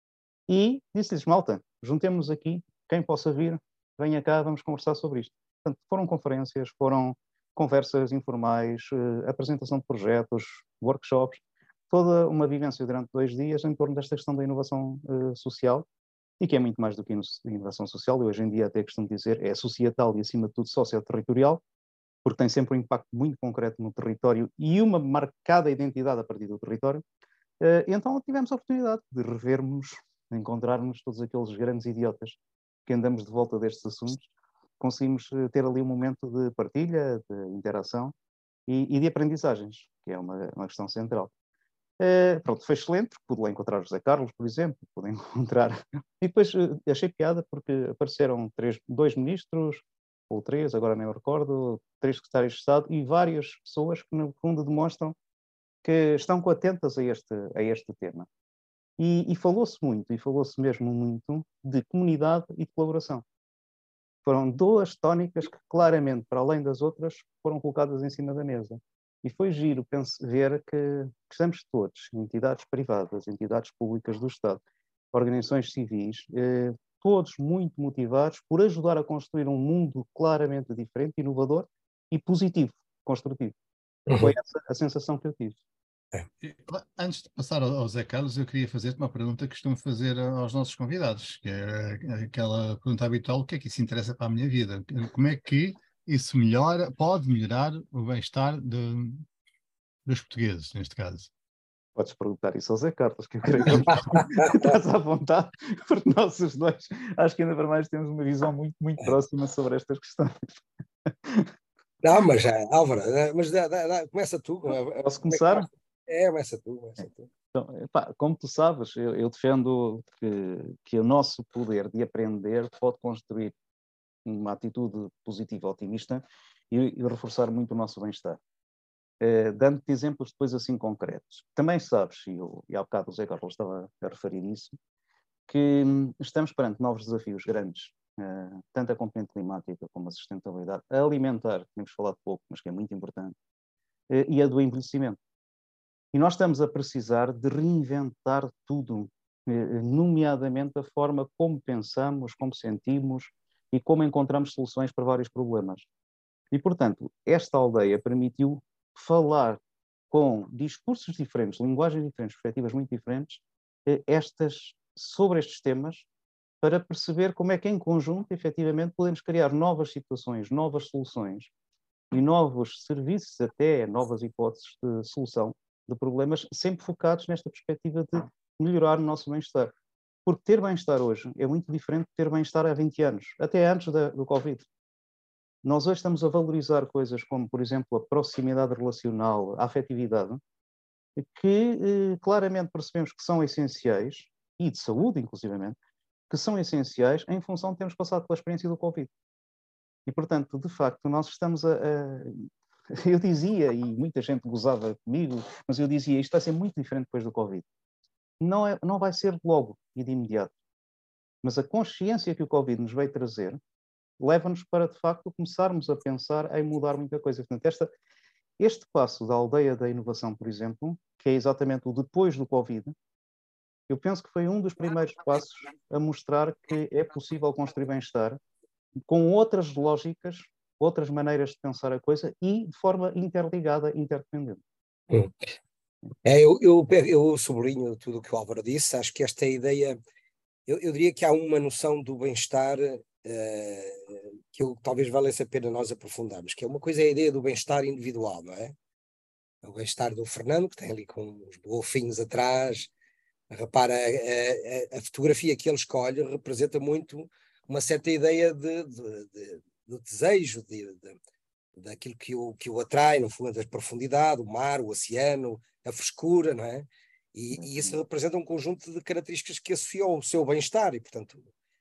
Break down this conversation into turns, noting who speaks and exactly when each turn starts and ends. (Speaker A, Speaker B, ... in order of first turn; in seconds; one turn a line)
Speaker A: 0.5-15.8
Speaker A: 16.4-21.6
Speaker A: 22.2-27.0
Speaker A: 27.6-34.3
Speaker A: 34.8-38.1
Speaker A: 38.7-41.3
Speaker A: 42.0-55.1
Speaker A: 55.8-58.3
Speaker A: 59.0-63.2
Speaker A: 64.2-74.6
Speaker A: 75.1-83.5
Speaker B: 84.1-84.3
Speaker A: 84.2-85.6
Speaker C: 86.4-99.2
Speaker C: 100.0-101.3
Speaker A: 102.0-110.5
Speaker B: 104.1-104.7
Speaker A: 111.1-111.5
Speaker B: 112.0-117.3
Speaker A: 115.0-115.7
Speaker A: 117.5-123.5
Speaker A: 124.2-128.4
Speaker A: 129.2-134.8
Speaker A: 135.5-143.3
Speaker A: 144.1-145.2
Speaker A: 146.1-155.9
Speaker A: 156.5-166.1
Speaker A: 166.6-171.5
Speaker A: 172.1-179.7
Speaker A: 180.2-184.7
Speaker A: 185.6-190.4
Speaker A: 191.2-195.8
Speaker A: 196.3-199.1
Speaker A: 200.1-207.6
Speaker A: 208.4-210.5
Speaker A: 211.4-213.6
Speaker A: 214.2-217.9
Speaker A: 218.6-222.9
Speaker A: 223.9-228.4
Speaker A: 229.1-234.6
Speaker B: 236.2-240.0
Speaker B: 240.7-248.7
Speaker B: 249.6-252.9
Speaker B: 253.5-261.2
Speaker B: 261.7-271.4
Speaker A: 267.6-267.9